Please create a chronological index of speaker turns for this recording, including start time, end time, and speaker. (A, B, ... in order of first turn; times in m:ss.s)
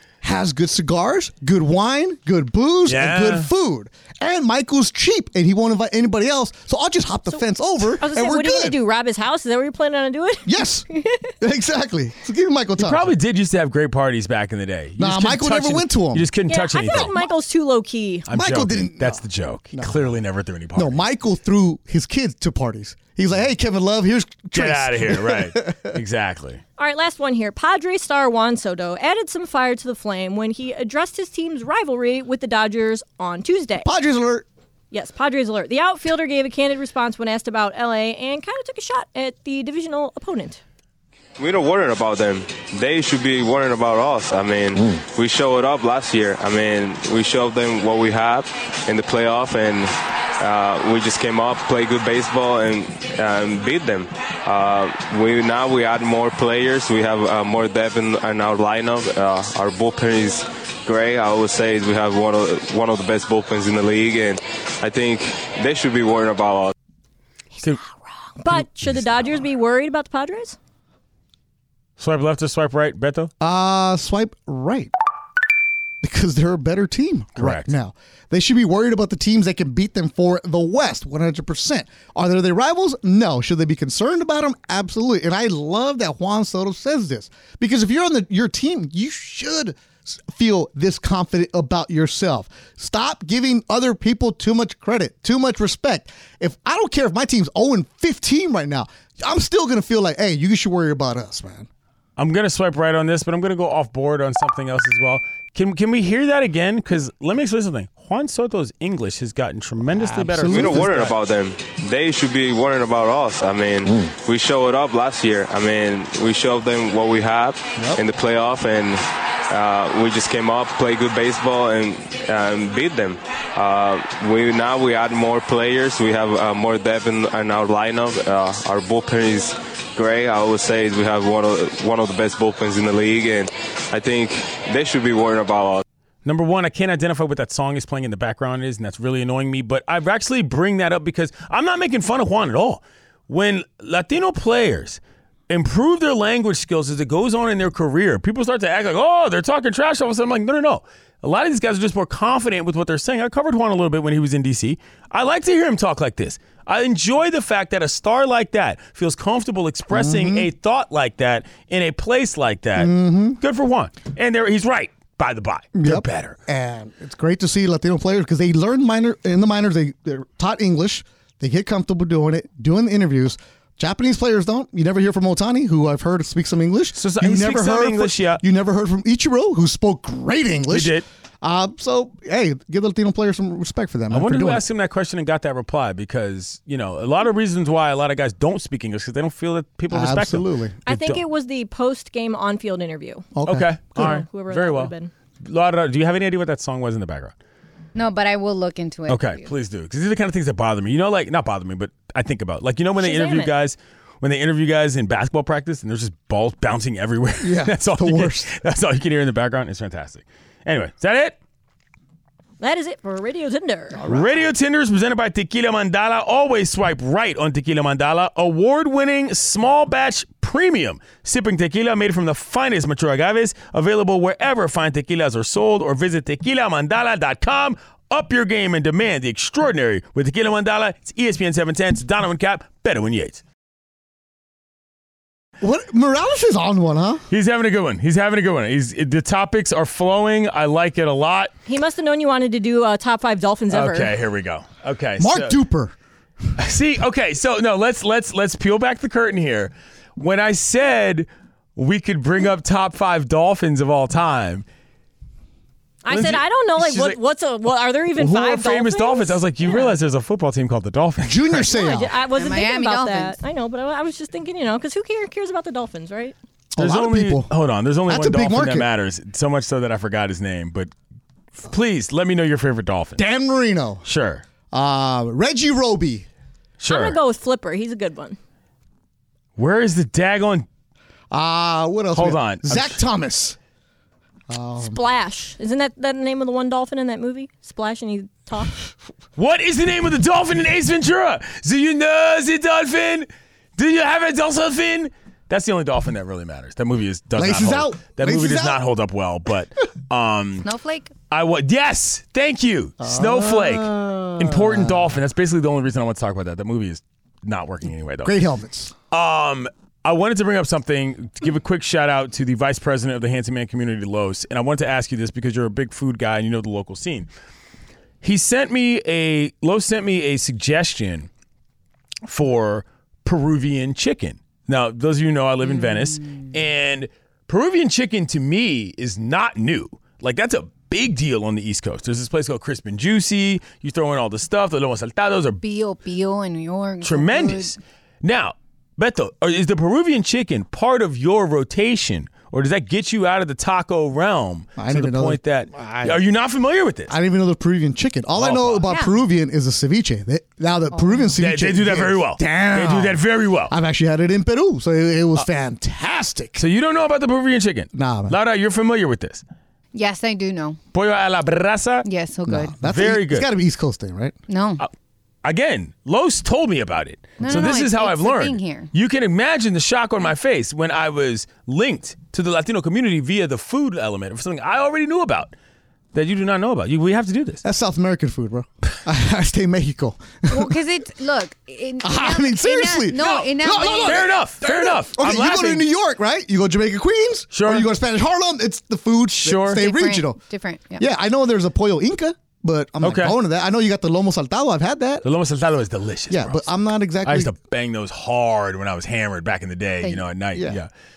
0:00.2-0:08.8 A
0:02.9-0:03.5 B
0:08.0-0:11.3 C
0:10.4-0:10.8 A
0:11.4-0:13.1 A
0:12.8-0:17.1 B
0:15.0-0:16.3 A
0:16.5-0:18.3 C
0:16.9-0:17.3 A
0:18.3-0:21.0 B
0:18.3-0:20.1 A
0:20.7-0:26.0 A
0:24.5-0:26.6 B
0:26.8-0:33.9 C
0:33.8-0:34.4 A
0:34.9-0:40.6 C
0:41.4-1:06.7 D
1:08.4-1:10.6 C
1:12.0-1:13.3 B
1:13.4-1:14.9 A
1:16.0-1:41.7 A
1:17.4-1:17.7 B
1:42.2-1:51.1 B
1:49.9-1:51.1 A
1:50.4-2:15.8 D
2:16.2-2:46.4 B
2:39.9-2:40.5 A
2:42.8-2:43.4 A
2:45.7-3:04.6 A
2:56.9-2:58.4 B
3:00.7-3:01.0 B
3:04.1-3:11.2 B
3:09.9-3:10.8 A
3:10.8-3:13.3 C
3:13.3-3:14.1 A
3:13.4-3:17.3 B
3:13.9-3:15.1 C
3:17.9-3:19.5 E
3:19.1-3:31.4 B
3:23.0-3:23.5 C
3:27.4-3:28.5 A
3:32.6-3:34.0 C
3:33.9-3:34.5 A
3:34.1-3:53.4 B
3:55.6-3:57.2 A
3:57.3-4:01.5 B
4:01.6-4:04.1 C
4:03.7-4:05.6 B
4:05.2-4:05.9 A
4:06.6-4:14.6 B
4:16.0-4:19.8 C
4:16.1-4:17.2 B
4:18.2-4:21.7 B
4:21.2-4:22.2 A
4:21.7-4:26.3 C
4:22.3-4:23.3 E
4:26.7-4:27.5 A
4:26.8-4:30.9 B
4:28.1-4:28.9 A
4:31.6-4:33.2 B
4:33.2-4:34.0 A
4:34.0-4:34.4 B
4:34.7-4:36.3 A
4:36.8-4:37.2 B
4:36.9-4:38.4 C
4:39.6-4:40.7 B
4:41.3-4:43.6 A
4:42.1-4:43.0 B
4:44.5-4:45.0 A
4:44.8-4:48.9 C
4:49.4-5:00.7 B
4:57.4-4:58.8 A
5:00.6-5:01.1 E
5:01.3-5:08.4 B
5:03.0-5:05.1 A
5:08.2-5:08.9 A
5:09.1-5:17.3 B
5:18.2-5:21.3 B
5:22.2-5:35.6 B
5:25.6-5:26.3 E
5:35.6-5:37.7 E
5:37.0-5:47.1 B
5:44.8-5:46.2 A
5:47.1-5:56.6 A
5:48.4-5:48.8 B
5:48.9-5:49.1 E
5:50.9-5:51.3 E
5:51.4-5:53.7 B
5:56.6-5:59.4 B
5:57.9-5:58.4 A
5:59.9-6:00.8 E
6:00.9-6:02.0 B
6:02.0-6:02.7 E
6:02.5-6:04.4 A
6:02.8-6:03.5 B
6:04.5-6:04.8 E
6:05.4-6:15.5 B
6:07.4-6:08.9 E
6:16.1-6:17.6 B
6:17.6-6:20.8 A
6:20.5-6:24.3 E
6:22.0-6:30.4 A
6:23.2-6:25.8 B
6:27.5-6:27.9 B
6:29.4-6:29.8 B
6:29.7-6:31.1 E
6:31.0-6:35.2 A
6:33.0-6:33.4 B
6:35.2-6:36.7 B
6:36.3-6:37.5 A
6:37.2-6:40.9 B
6:40.0-6:40.2 E
6:40.5-6:40.8 A